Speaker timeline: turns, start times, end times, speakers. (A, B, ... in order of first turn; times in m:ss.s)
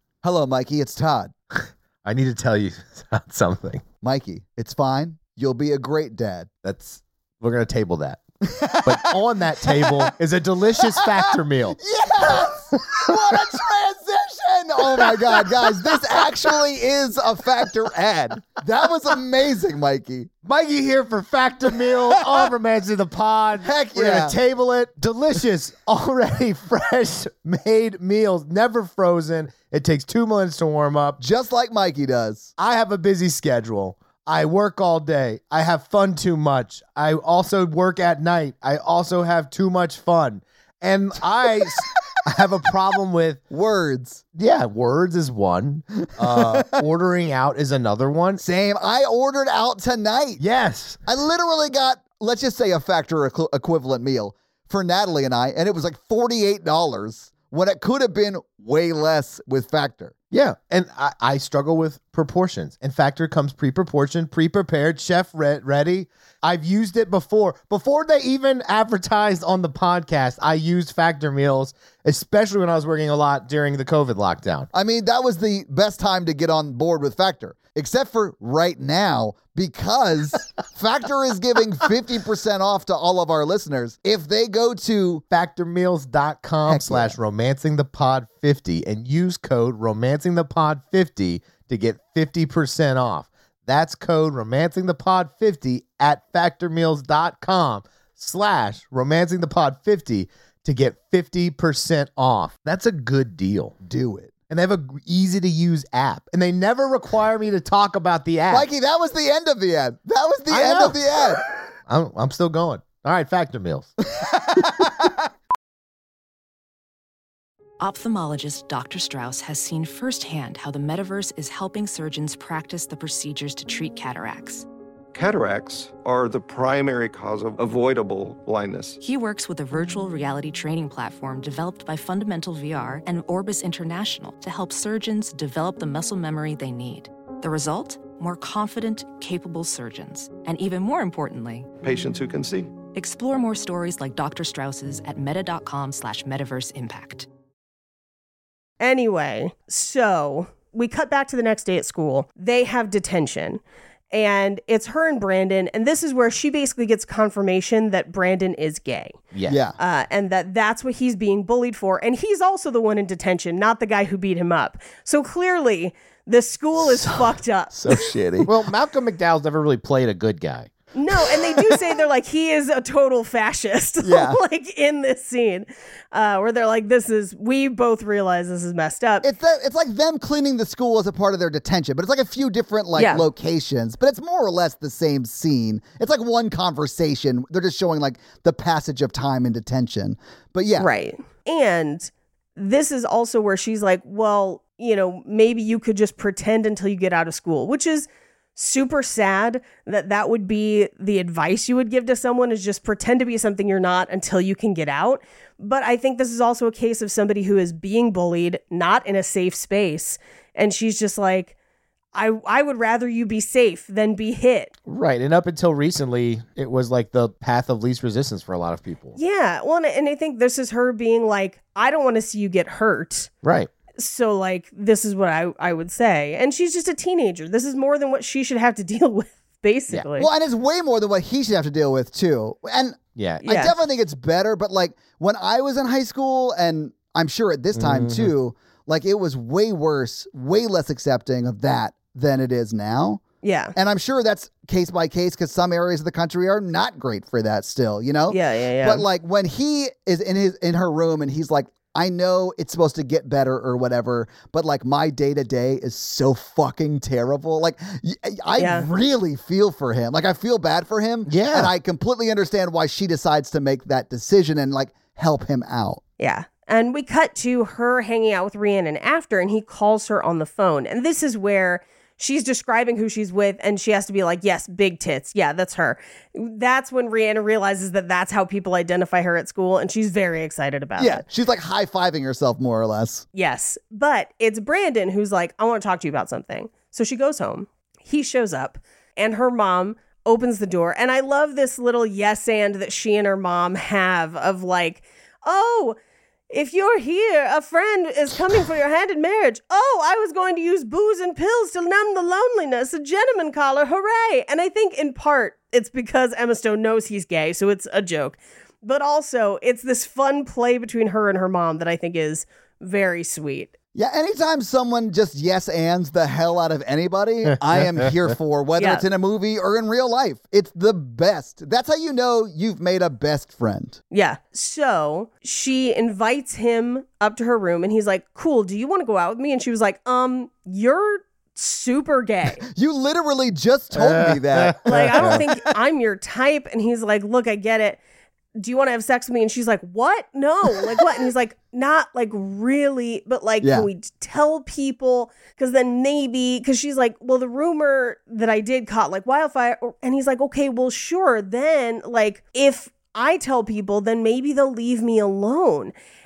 0:00.2-0:01.3 A
0:01.5-0:03.8 B
0:04.0-0:06.5 A
0:06.6-0:08.2 B
0:08.4-0:10.1 A
0:08.8-0:11.8 B
0:10.8-0:20.3 A
0:12.4-0:13.0 B
0:20.4-0:31.2 B
0:22.2-0:22.5 A
0:23.6-0:24.4 A
0:31.2-0:32.5 A
0:32.6-0:43.4 B
0:43.5-0:44.2 A
0:44.4-0:48.4 B
0:46.2-0:46.8 A
0:48.4-0:50.4 A
0:50.4-0:51.0 B
0:51.0-1:00.1 A
1:00.3-1:14.7 B
1:14.7-1:25.2 A
1:25.3-1:43.8 B
1:26.7-1:27.2 A
1:43.8-1:44.3 A
1:44.5-1:48.7 B
1:48.5-1:51.4 A
1:50.5-1:53.9 B
1:54.1-1:55.2 A
1:57.8-2:04.6 C
2:05.1-2:09.0 D
2:09.0-2:21.7 C
2:21.8-2:22.7 D
2:22.9-2:27.3 C
2:28.8-2:39.2 E
2:39.3-2:39.6 B
2:39.5-2:39.8 A
2:39.8-2:47.9 E
2:47.7-2:48.5 A
2:48.4-2:50.7 B
2:50.9-2:59.2 E
2:54.0-2:54.4 A
2:59.2-3:10.9 A
3:03.0-3:03.2 E
3:10.8-3:31.5 E
3:32.1-3:34.7 E
3:34.9-3:39.2 B
3:39.2-3:43.3 E
3:43.4-3:43.7 B
3:44.0-3:50.3 E
3:50.2-4:03.2 A
3:53.2-3:53.4 B
3:53.4-3:53.7 E
3:57.7-3:58.3 B
4:03.4-4:03.7 E
4:03.7-4:26.0 A
4:08.3-4:09.0 E
4:18.6-4:18.9 E
4:21.3-4:21.7 B
4:26.2-4:41.2 E
4:41.0-4:43.2 A
4:43.3-4:56.0 E
4:56.5-5:13.7 E
5:13.9-5:24.0 A
5:18.8-5:19.0 E
5:24.1-5:32.6 E
5:32.7-5:35.6 A
5:33.9-5:35.4 B
5:34.8-5:38.0 E
5:38.6-5:55.9 E
5:43.6-5:43.9 A